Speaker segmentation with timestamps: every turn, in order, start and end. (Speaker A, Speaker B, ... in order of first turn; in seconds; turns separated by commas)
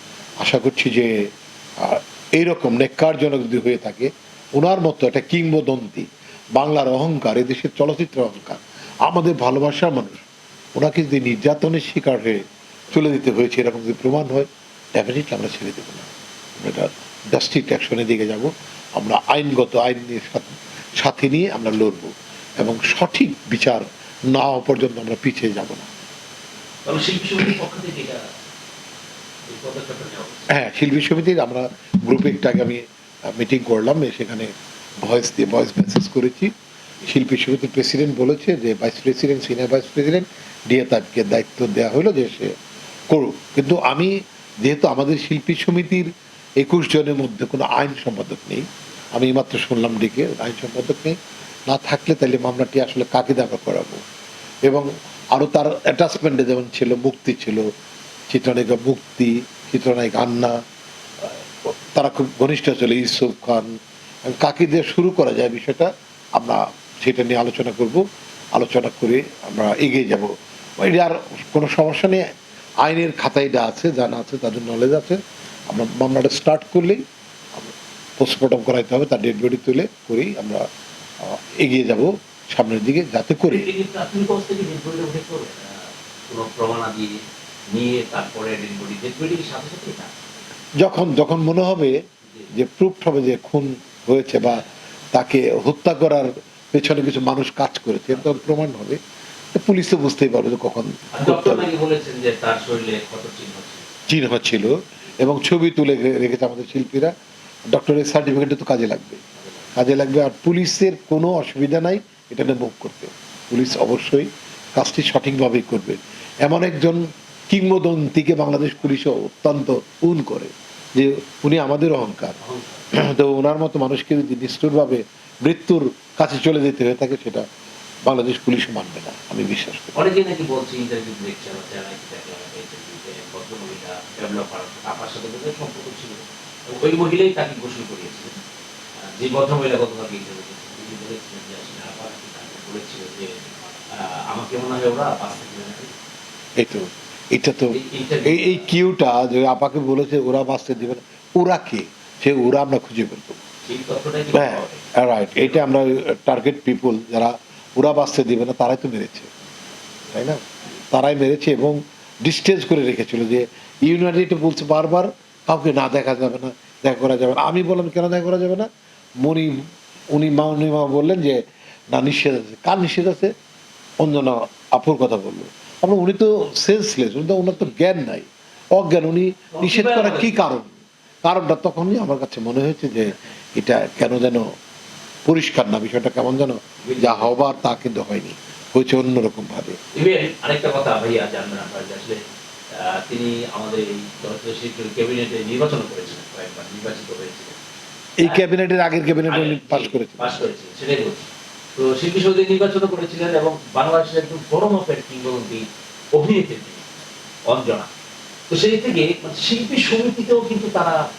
Speaker A: 0.4-25.9, Speaker B: 26.8-28.2, Speaker B: 29.5-30.5, Speaker A: 30.5-36.5, Speaker A: 37.0-42.5, Speaker A: 43.1-51.2, Speaker A: 51.7-54.0, Speaker A: 54.6-57.7, Speaker A: 58.3-60.5, Speaker A: 61.2-72.3, Speaker A: 72.8-77.0, Speaker A: 77.6-80.6, Speaker A: 81.2-83.7, Speaker B: 83.5-90.1, Speaker A: 90.8-92.0, Speaker A: 92.5-99.0, Speaker A: 99.5-101.7, Speaker B: 101.1-103.9, Speaker A: 104.1-107.1, Speaker A: 107.7-109.2, Speaker A: 109.8-122.4, Speaker B: 122.4-122.8, Speaker A: 122.9-127.4, Speaker A: 128.1-130.0, Speaker B: 129.9-138.3, Speaker B: 139.0-145.9, Speaker A: 146.6-153.4, Speaker B: 147.7-148.7, Speaker B: 153.7-155.6, Speaker A: 154.3-159.3, Speaker A: 160.1-168.7, Speaker A: 169.2-169.6, Speaker A: 170.1-173.3, Speaker A: 174.0-180.7, Speaker B: 179.5-180.4, Speaker A: 181.2-184.5, Speaker A: 185.3-189.8, Speaker B: 186.8-187.3, Speaker B: 189.9-197.6, Speaker A: 198.2-200.5, Speaker B: 199.2-206.8, Speaker B: 207.5-207.9, Speaker B: 208.5-211.1